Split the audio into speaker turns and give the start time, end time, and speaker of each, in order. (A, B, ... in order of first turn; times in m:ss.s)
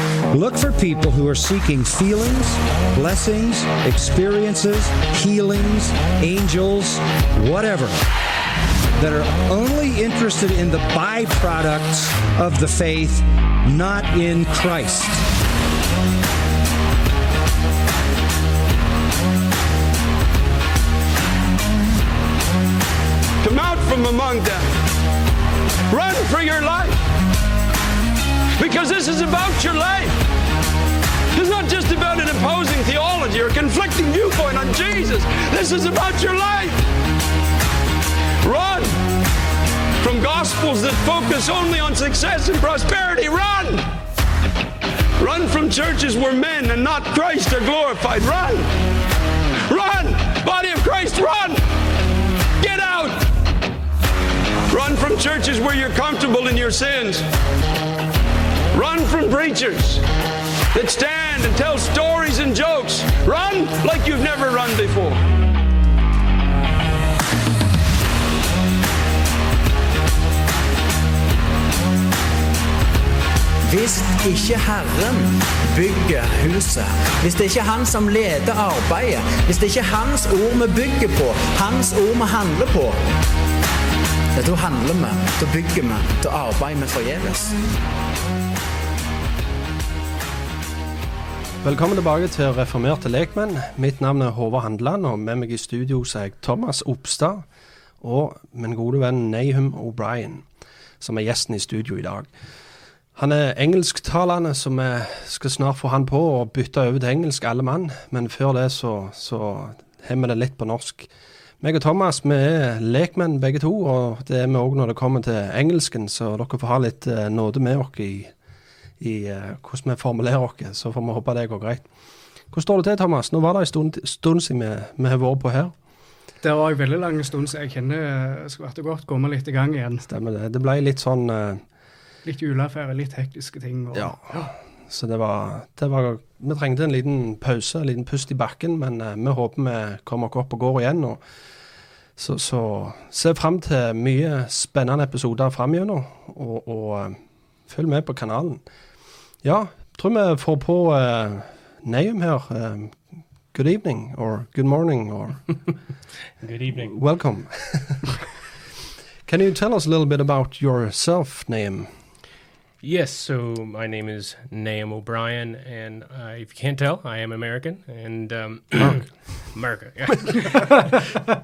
0:00.3-0:08.0 A
0:09.0-0:15.2 A
0:23.4-0:24.8 B
0:25.9-0:27.0 B
0:28.6-0:30.2 B
0:31.3-0:36.8 B
0:38.4-0:39.0 B
0:40.0-0:43.9 B
0:45.2-0:48.7 B
0:49.7-0:51.6 B
0:52.6-0:53.3 B
0:54.7-0:57.3 B
0:58.7-1:00.0 B
1:00.7-1:05.2 B
1:13.6-1:23.0 C
1:24.3-1:27.5 C
1:31.6-1:37.5 D
1:38.0-1:40.5 D
1:41.0-1:42.3 D
1:43.1-1:58.3 D
1:59.0-2:01.9 D
2:02.5-2:05.7 D
2:06.4-2:10.1 E
2:10.0-2:11.6 D
2:12.2-2:14.5 E
2:13.9-2:21.2 D
2:22.2-2:28.6 D
2:29.4-2:35.6 D
2:36.4-2:36.9 F
2:36.7-2:38.2 D
2:39.2-2:41.9 D
2:42.8-2:51.0 F